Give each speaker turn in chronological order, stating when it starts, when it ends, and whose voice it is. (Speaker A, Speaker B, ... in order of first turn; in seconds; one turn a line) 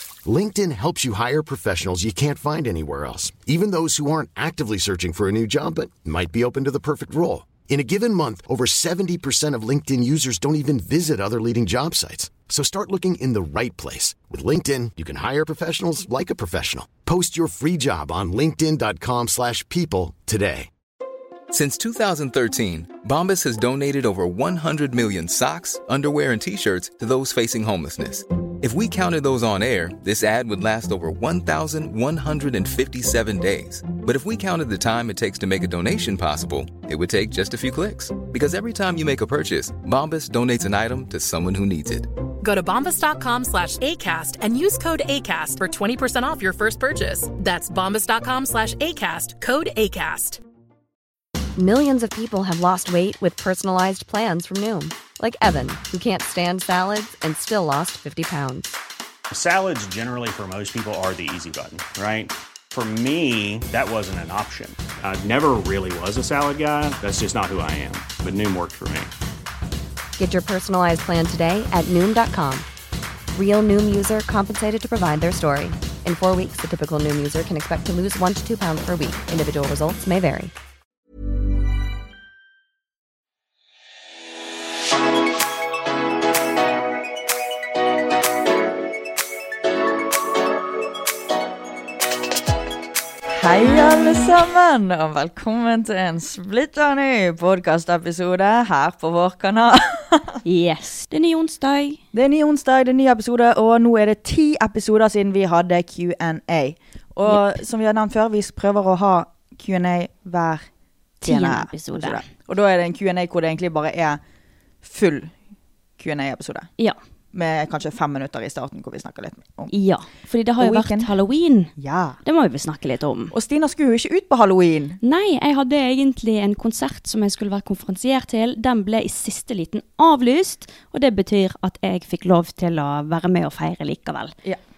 Speaker A: 0.2-20.7
Speaker B: 21.5-42.1
Speaker C: 42.4-50.4
Speaker D: 51.6-58.8
Speaker E: 59.3-69.1
Speaker D: 70.2-72.7
Speaker D: 73.3-80.5
Speaker F: 93.3-100.4
Speaker G: 93.8-94.2
Speaker G: 100.5-102.0
Speaker F: 102.1-110.7
Speaker F: 111.2-114.2
Speaker G: 111.2-112.2
Speaker F: 114.8-115.3
Speaker F: 116.0-116.7
Speaker F: 117.3-119.7
Speaker G: 119.7-121.7
Speaker F: 120.6-121.1
Speaker F: 121.8-122.2
Speaker G: 122.2-123.3
Speaker F: 123.3-125.0
Speaker G: 125.0-134.3